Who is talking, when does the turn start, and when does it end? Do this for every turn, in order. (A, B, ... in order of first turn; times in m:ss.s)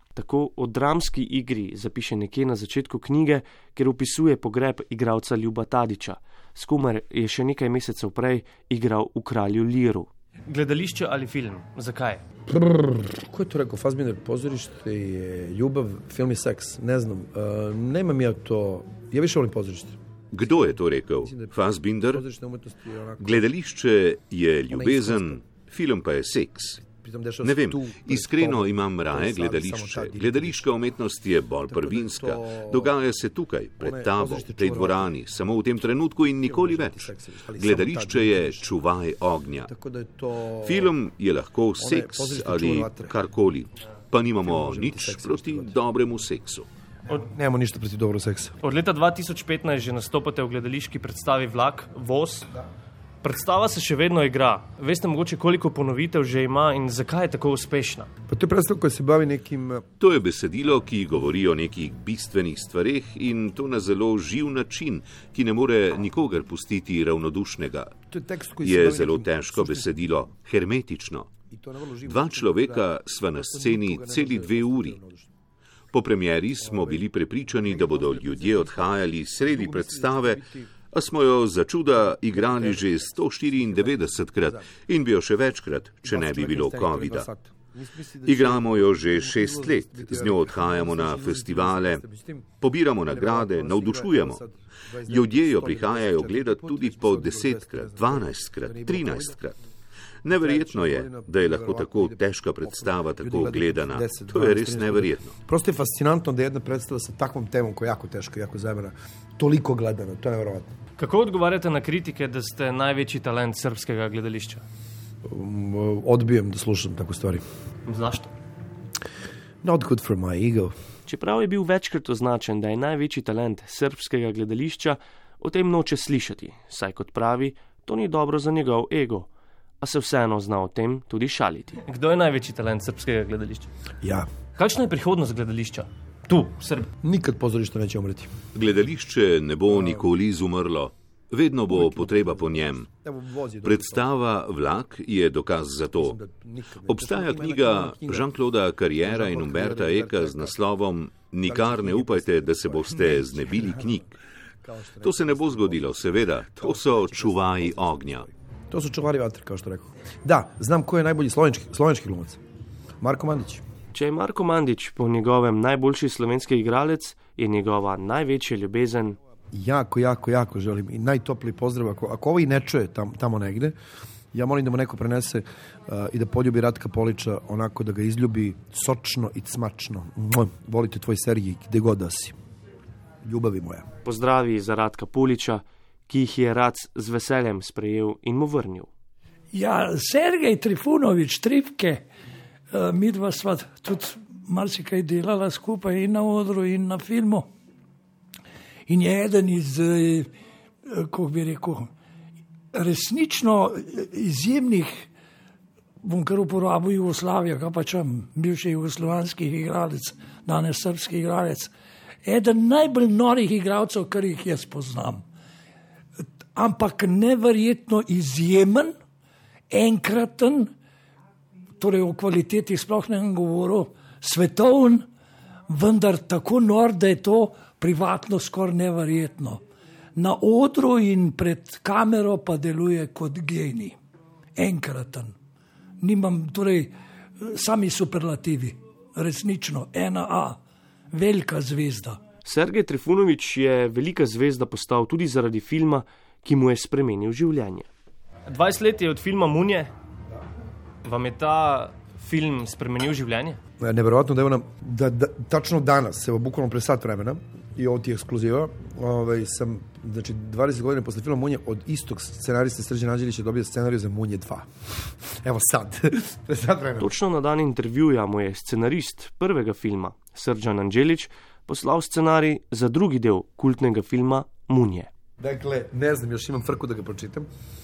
0:00.2-0:10.1 A
0:10.5-0:12.2 B
0:12.5-0:20.0 C
0:20.3-0:22.2 D
0:21.2-0:23.4 C
0:23.2-0:26.8 D
0:24.7-0:25.4 C
0:26.8-0:30.7 C
0:27.4-0:39.7 D
0:31.7-0:32.9 C
0:33.8-0:35.1 C
0:36.4-0:38.7 C
0:39.6-0:40.9 C
0:40.6-0:46.7 D
0:41.8-0:43.2 C
0:44.4-0:45.7 C
0:47.1-0:48.6 C
0:48.6-0:52.5 B
0:53.2-0:58.1 B
0:58.3-0:59.8 C
1:00.0-1:07.9 D
1:08.1-1:10.0 C
1:08.6-1:11.3 D
1:11.5-1:15.3 C
1:12.0-1:15.0 D
1:15.9-1:20.4 D
1:16.6-1:20.7 C
1:20.9-1:27.3 D
1:22.0-1:24.7 C
1:26.0-1:32.5 C
1:28.2-1:32.0 D
1:32.6-1:34.4 D
1:33.1-1:39.4 C
1:35.1-1:39.5 D
1:40.2-1:45.3 D
1:40.3-1:50.7 C
1:51.0-1:54.6 B
1:55.2-1:57.4 C
1:57.8-1:58.3 B
1:59.6-2:00.7 C
2:01.1-2:09.3 A
2:09.8-2:11.8 A
2:11.8-2:13.7 B
2:14.0-2:14.3 C
2:14.6-2:16.9 B
2:17.0-2:18.3 C
2:18.5-2:22.9 D
2:19.6-2:20.1 C
2:21.7-2:24.0 C
2:23.6-2:26.2 D
2:25.9-2:28.3 C
2:26.9-2:34.1 D
2:29.0-2:30.6 C
2:31.4-2:34.0 C
2:34.6-2:42.4 C
2:35.0-2:38.2 D
2:43.0-2:43.6 C
2:43.9-2:49.2 A
2:49.5-2:53.8 C
2:54.3-3:02.3 C
3:03.2-3:03.8 C
3:04.0-3:08.9 A
3:09.5-3:12.0 E
3:12.7-3:17.5 E
3:18.9-3:20.3 E
3:20.9-3:21.9 E
3:22.7-3:25.1 E
3:26.0-3:31.7 E
3:32.2-3:35.2 E
3:36.5-3:38.9 E
3:39.7-3:40.7 E
3:41.8-3:45.0 E
3:45.7-3:49.6 E
3:50.2-3:54.0 E
3:54.6-3:55.3 E
3:56.0-3:56.9 E
3:57.5-4:00.6 E
4:01.1-4:02.2 E
4:02.4-4:07.9 A
4:08.5-4:09.9 B
4:11.0-4:13.6 B
4:13.8-4:27.1 C
4:27.0-4:35.1 A
4:35.4-4:37.5 C